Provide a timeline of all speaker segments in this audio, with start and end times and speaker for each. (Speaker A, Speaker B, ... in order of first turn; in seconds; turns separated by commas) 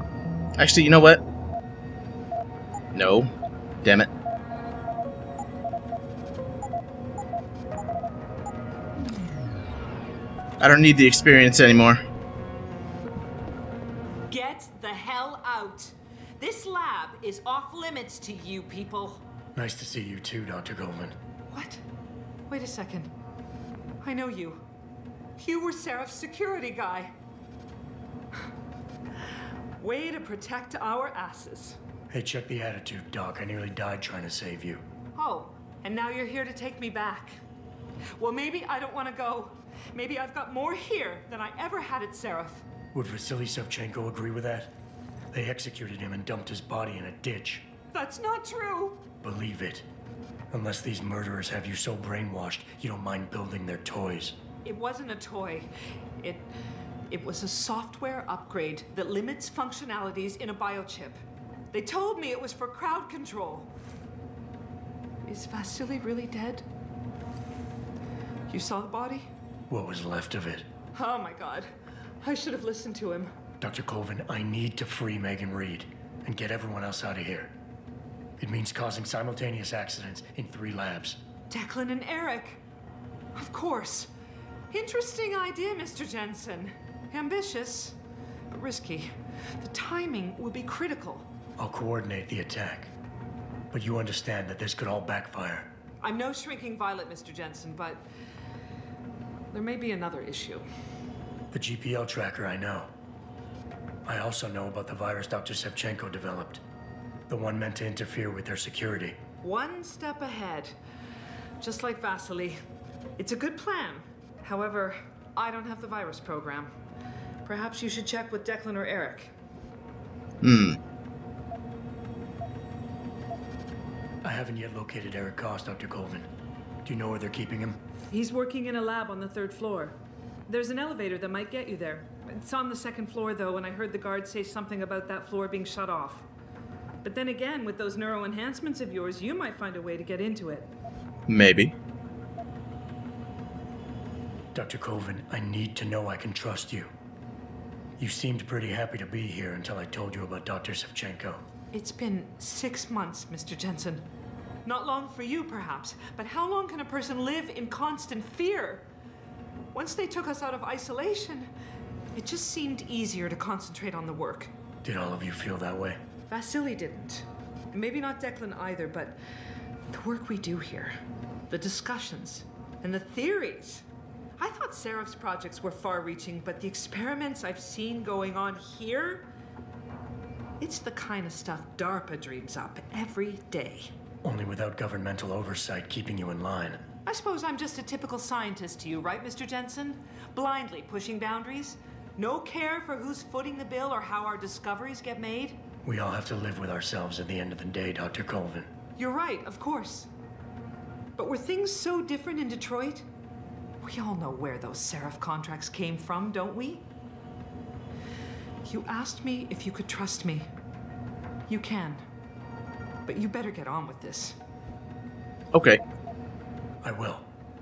Speaker A: 0.6-1.2, Speaker A: 2.9-3.3, Speaker A: 3.8-4.1, Speaker A: 10.6-12.0, Speaker B: 14.3-19.2, Speaker C: 19.6-21.2, Speaker B: 21.5-21.8, Speaker B: 22.5-23.1, Speaker B: 24.0-24.6, Speaker B: 25.4-27.1, Speaker B: 29.8-31.8, Speaker C: 32.1-34.8, Speaker B: 35.1-37.4, Speaker B: 38.2-42.7, Speaker C: 42.9-44.8, Speaker C: 45.3-47.7, Speaker B: 47.9-49.0, Speaker C: 49.2-49.9, Speaker C: 50.5-54.4, Speaker B: 54.6-55.7, Speaker B: 56.2-56.5, Speaker B: 57.1-61.2, Speaker B: 61.7-63.7, Speaker B: 65.2-66.7, Speaker B: 68.5-69.3, Speaker C: 69.7-70.7, Speaker B: 71.0-71.7, Speaker B: 72.2-73.3, Speaker C: 73.6-77.5, Speaker C: 78.4-81.2, Speaker B: 81.5-82.6, Speaker B: 83.3-84.1, Speaker B: 84.7-88.0, Speaker B: 88.5-91.3, Speaker C: 91.6-92.9, Speaker C: 93.7-95.7, Speaker B: 96.0-98.1, Speaker B: 99.5-100.7, Speaker C: 101.5-102.9, Speaker C: 104.0-106.6, Speaker C: 107.3-109.2, Speaker B: 109.4-110.8, Speaker B: 111.6-112.6, Speaker B: 113.2-116.7, Speaker B: 117.5-119.3, Speaker A: 120.4-120.8, Speaker C: 124.2-126.3, Speaker C: 126.8-127.8, Speaker B: 128.1-130.0, Speaker B: 130.5-136.3, Speaker B: 137.0-140.7, Speaker A: 141.3-141.8, Speaker C: 144.5-146.9, Speaker C: 148.0-151.4, Speaker B: 151.7-154.1, Speaker B: 154.7-158.9, Speaker B: 159.7-161.5, Speaker B: 162.2-164.5, Speaker C: 164.8-166.0, Speaker B: 166.3-169.2, Speaker B: 169.9-170.9, Speaker B: 171.5-173.8, Speaker B: 174.4-179.3, Speaker B: 180.6-183.9, Speaker C: 184.2-186.8, Speaker B: 187.1-195.6, Speaker C: 195.8-198.7, Speaker B: 199.0-200.1, Speaker B: 201.2-203.1, Speaker B: 203.8-206.9, Speaker B: 208.6-210.5, Speaker B: 211.5-212.0, Speaker B: 213.1-214.4, Speaker A: 215.5-215.8, Speaker C: 216.8-217.3